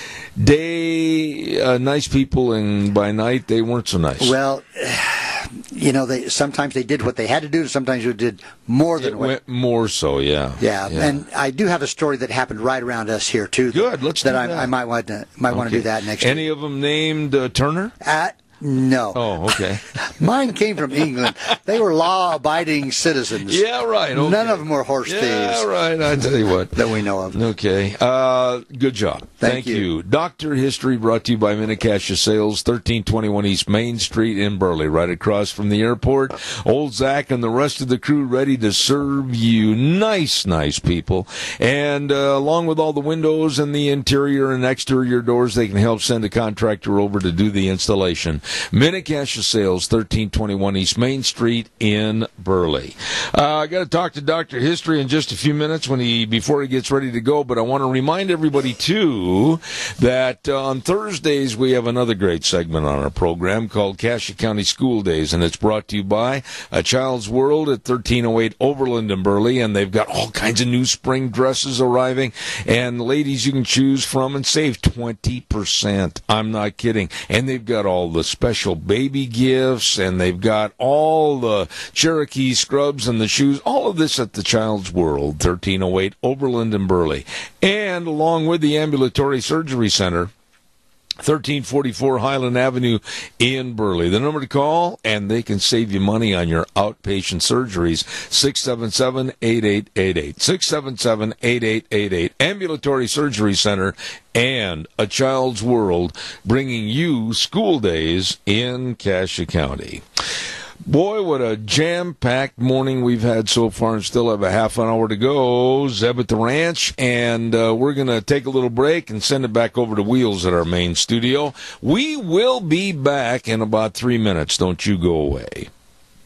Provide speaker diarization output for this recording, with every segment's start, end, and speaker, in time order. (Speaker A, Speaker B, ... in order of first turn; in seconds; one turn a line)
Speaker A: 0.4-4.3
Speaker B: 4.2-9.3
Speaker A: 9.0-11.2
Speaker B: 10.6-16.4
Speaker A: 13.7-14.7
Speaker A: 15.5-17.9
Speaker B: 18.0-19.3
Speaker A: 19.1-19.8
Speaker B: 20.0-25.7
Speaker A: 23.4-90.3
Speaker B: 26.7-27.4
Speaker B: 29.4-29.9
Speaker A: 91.2-110.0
Speaker A: 110.8-125.7